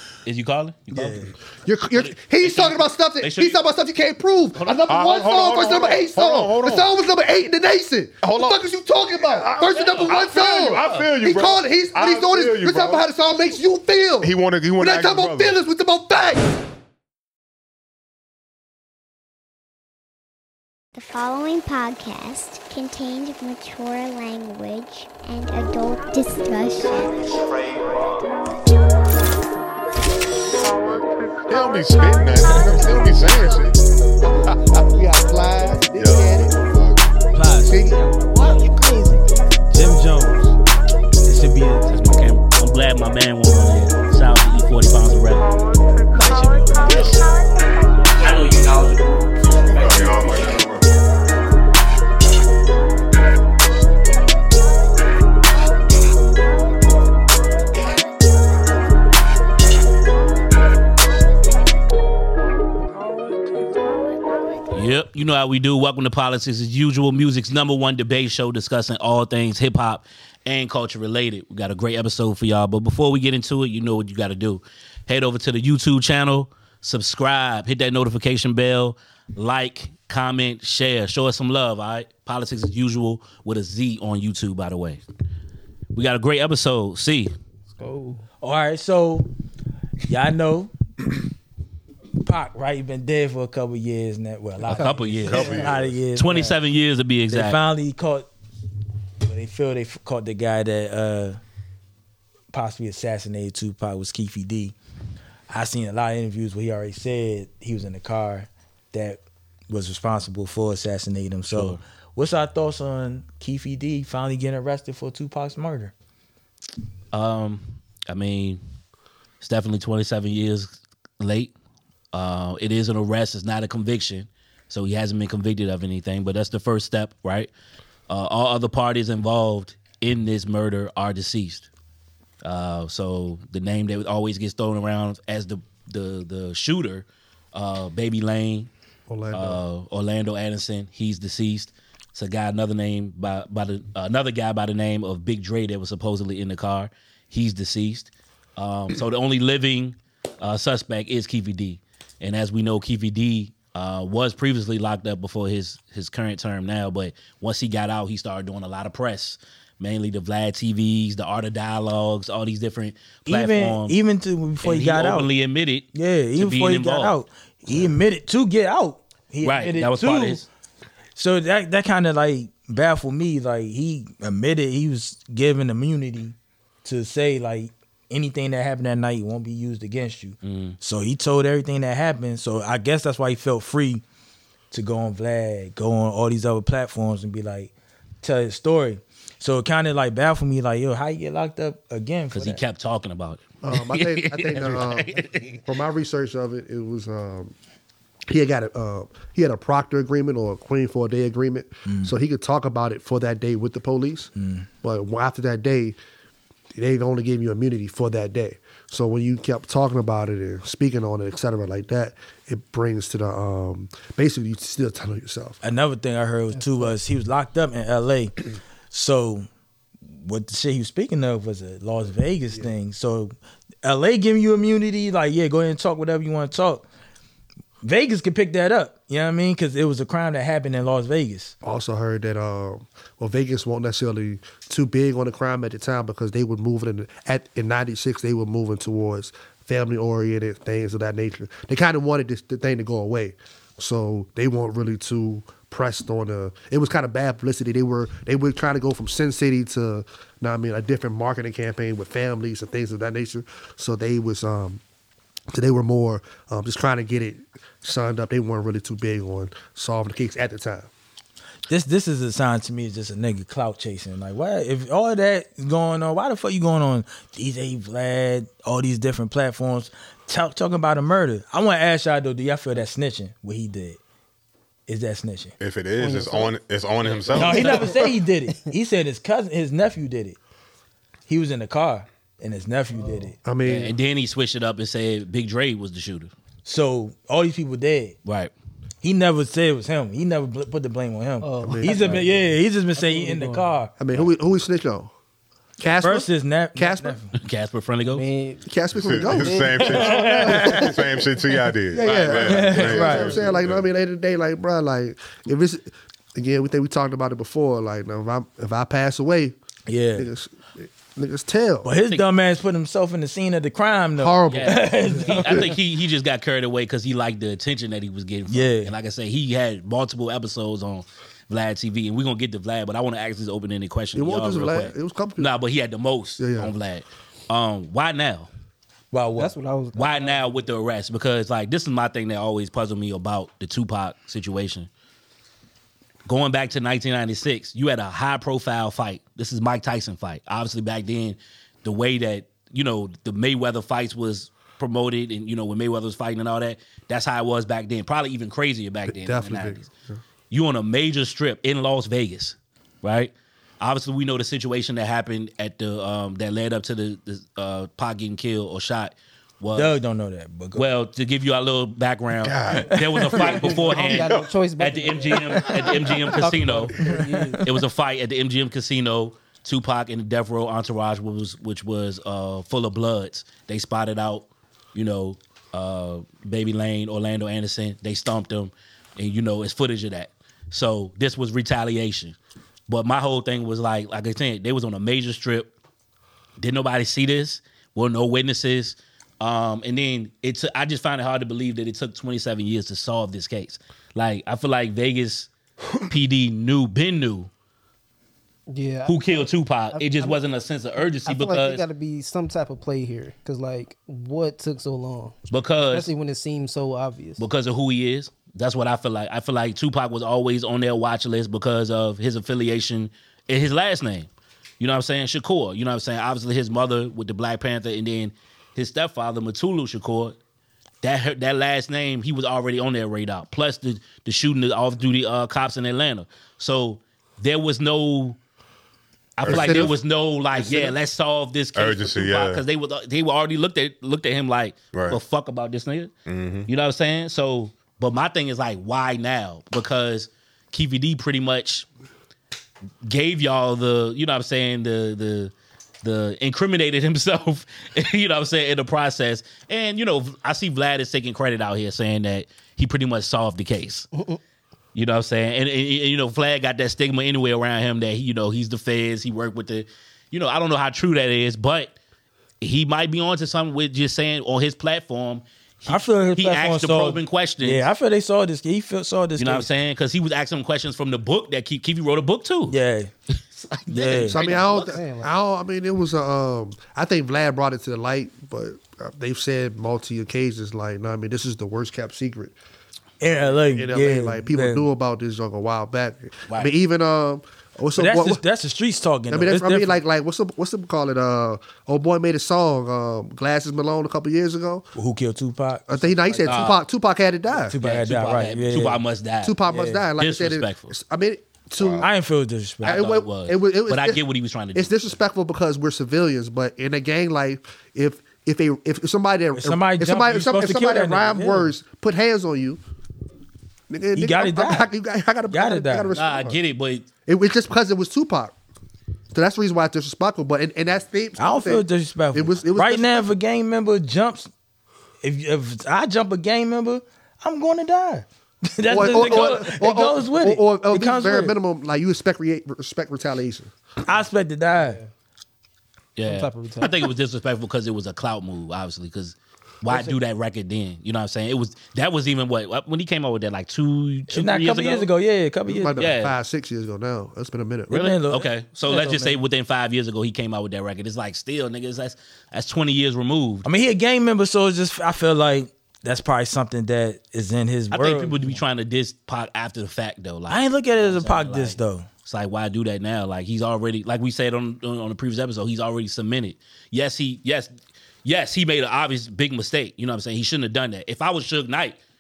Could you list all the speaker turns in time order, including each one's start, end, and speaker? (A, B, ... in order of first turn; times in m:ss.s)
0:00.3-0:01.3 A
0:00.9-0:01.3 B
0:01.6-0:16.5 C
0:01.9-0:03.6 A
0:04.5-0:04.9 A
0:04.9-0:06.9 D
0:08.2-0:13.1 D
0:09.7-0:10.2 A
0:10.8-0:11.1 A
0:14.2-0:15.6 D
0:21.0-0:27.5 E
0:31.5-0:33.8 D
0:34.2-0:36.6 C
0:34.5-0:34.8 D
0:35.9-0:37.0 D
0:37.3-0:38.0 B
0:37.7-0:38.0 C
0:37.9-0:39.3 F
0:39.7-0:40.6 B
0:41.3-0:42.0 B
0:41.9-0:45.5 A
0:46.1-0:47.3 A
0:48.2-0:48.9 A
0:49.7-0:50.8 D
0:49.8-0:50.5 A
1:04.7-1:25.0 A
1:25.9-1:27.3 A
1:27.7-1:28.2 F
1:28.4-1:29.3 B
1:30.0-1:30.7 B
1:32.2-1:36.6 B
1:34.7-1:37.6 A
1:34.8-1:35.6 F
1:35.3-1:36.0 D
1:37.3-1:38.3 B
1:39.2-1:41.4 B
1:42.5-1:44.8 B
1:45.5-1:55.9 B
1:51.5-1:51.8 A
1:57.1-1:58.6 A
1:59.4-2:01.5 A
2:02.1-2:07.5 A
2:08.1-2:11.7 A
2:12.4-2:18.7 A
2:19.1-2:19.6 C
2:19.3-2:44.0 A
2:43.3-2:45.3 B
2:44.6-2:47.2 A
2:45.9-2:50.4 B
2:49.4-2:50.5 A
2:51.2-3:04.0 B
3:00.4-3:00.8 A
3:04.7-3:07.7 B
3:08.2-3:12.6 B
3:12.3-3:15.7 A
3:13.6-3:17.5 C
3:18.3-3:24.3 C
3:21.9-3:22.1 B
3:24.4-3:24.7 B
3:24.8-3:26.0 C
3:26.8-3:35.6 C
3:35.6-3:39.5 B
3:40.2-3:46.8 B
3:47.8-3:51.5 B
3:51.6-4:14.8 C
4:15.5-4:20.9 C
4:21.7-4:34.0 B
4:34.9-4:35.5 B
4:35.6-4:37.8 D
4:36.0-4:36.5 F
4:37.0-4:37.9 A
4:37.4-4:40.4 B
4:37.6-4:38.1 F
4:41.3-4:43.4 B
4:43.0-4:43.3 F
4:43.4-4:44.0 C
4:43.6-4:46.3 A
4:46.6-4:48.2 B
4:48.2-4:48.5 A
4:49.0-4:53.9 B
4:51.4-4:53.7 F
4:51.6-4:52.2 C
4:54.0-4:55.1 C
4:55.8-4:57.2 C
4:56.0-4:57.3 B
4:57.4-4:58.3 A
4:58.1-4:58.6 F
4:58.6-5:01.3 C
4:59.0-5:03.9 D
4:59.3-5:00.1 F
4:59.9-5:01.0 B
5:01.9-5:09.6 C
5:02.0-5:02.3 A
5:02.3-5:03.4 B
5:09.9-5:10.3 B
5:10.2-5:11.9 C
5:11.8-5:15.7 B
5:14.2-5:15.7 C
5:14.5-5:28.5 A
5:18.5-5:18.9 B
5:24.2-5:25.5 C
5:26.4-5:26.7 C
5:29.1-5:29.5 B
5:29.4-5:30.6 F
5:29.9-5:34.9 A
5:36.3-5:49.8 A
5:49.1-5:50.2 C
5:50.5-6:00.0 A
5:59.7-6:00.9 B
6:00.8-6:07.0 A
6:02.4-6:03.4 D
6:02.9-6:03.8 B
6:03.4-6:07.6 F
6:04.2-6:04.5 D
6:07.0-6:07.6 B
6:07.6-6:22.4 A
6:22.9-6:25.7 A
6:26.6-6:35.5 A
6:36.1-6:37.5 A
6:38.7-6:40.4 F
6:39.1-6:41.8 A
6:41.3-6:45.4 F
6:45.5-6:46.1 A
6:45.9-6:47.4 F
6:47.4-6:54.3 A
6:54.8-7:00.4 A
7:01.0-7:08.4 A
7:09.4-7:16.1 A
7:09.4-7:09.9 D
7:09.5-7:10.0 C
7:10.6-7:11.0 C
7:11.8-7:12.6 D
7:14.9-7:15.2 D
7:16.3-7:16.7 D
7:16.7-7:21.9 A
7:23.0-7:34.1 A
7:34.1-7:34.4 F
7:35.0-7:42.0 A
7:42.6-7:47.8 A
7:45.9-7:49.7 B
7:49.4-7:52.8 A
7:52.7-7:53.1 B
7:53.6-7:54.9 A
7:53.9-7:54.4 B
7:54.3-8:02.6 C
7:54.6-7:55.3 F
8:03.2-8:04.9 B
8:03.4-8:08.4 C
8:08.0-8:10.0 B
8:09.3-8:14.9 C
8:15.0-8:16.7 B
8:15.9-8:17.8 C
8:16.4-8:16.8 A
8:17.5-8:19.0 B
8:17.8-8:19.6 A
8:19.4-8:22.1 C
8:19.6-8:20.1 B
8:20.2-8:20.9 A
8:21.8-8:22.1 D
8:22.0-8:23.0 B
8:22.8-8:25.0 A
8:22.8-8:24.2 C
8:24.7-8:32.8 C
8:29.6-8:31.7 B
8:33.9-8:36.6 C
8:34.2-8:34.9 B
8:35.5-8:36.1 B
8:36.1-8:37.1 A
8:37.3-8:38.5 C
8:39.3-8:43.3 C
8:41.4-8:44.5 B
8:45.2-8:51.5 B
8:48.9-8:53.7 C
8:54.0-8:55.0 B
8:54.8-8:55.1 F
8:56.2-9:05.1 A
8:56.2-8:57.1 F
8:59.9-9:00.2 B
9:04.3-9:06.1 B
9:05.7-9:07.9 C
9:06.0-9:06.4 A
9:07.9-9:09.4 B
9:07.9-9:13.7 A
9:13.6-9:18.6 B
9:17.9-9:27.7 A
9:20.5-9:22.1 B
9:28.2-9:32.0 A